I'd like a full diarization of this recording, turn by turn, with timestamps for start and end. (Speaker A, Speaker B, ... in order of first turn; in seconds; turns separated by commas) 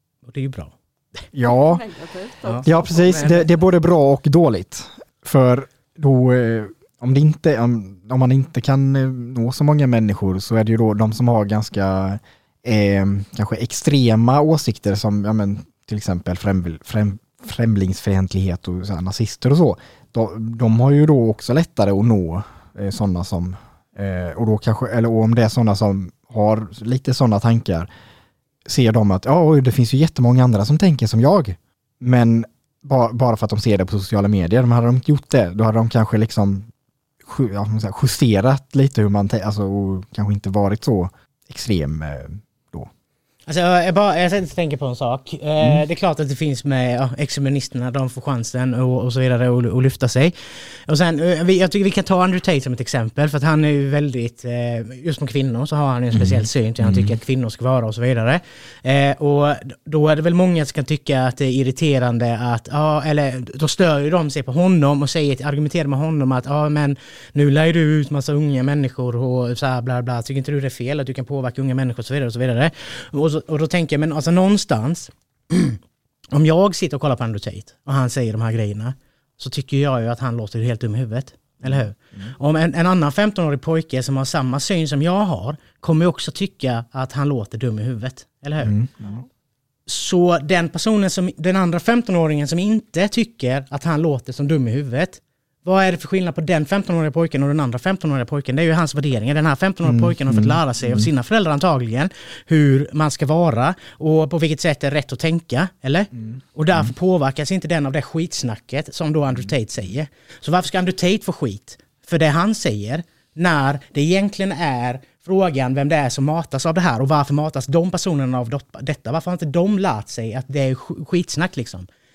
Speaker A: 0.2-1.2, Speaker B: 1.3-1.8, Speaker C: 1.4-3.5, Speaker A: 2.4-3.5, Speaker B: 2.6-27.9, Speaker B: 28.6-36.7, Speaker B: 37.2-42.9, Speaker A: 43.5-75.8, Speaker B: 56.1-57.2, Speaker A: 76.3-88.7, Speaker B: 81.6-82.3, Speaker B: 88.6-89.2, Speaker A: 89.9-121.9, Speaker B: 99.8-101.1, Speaker B: 106.1-106.9, Speaker B: 109.3-109.9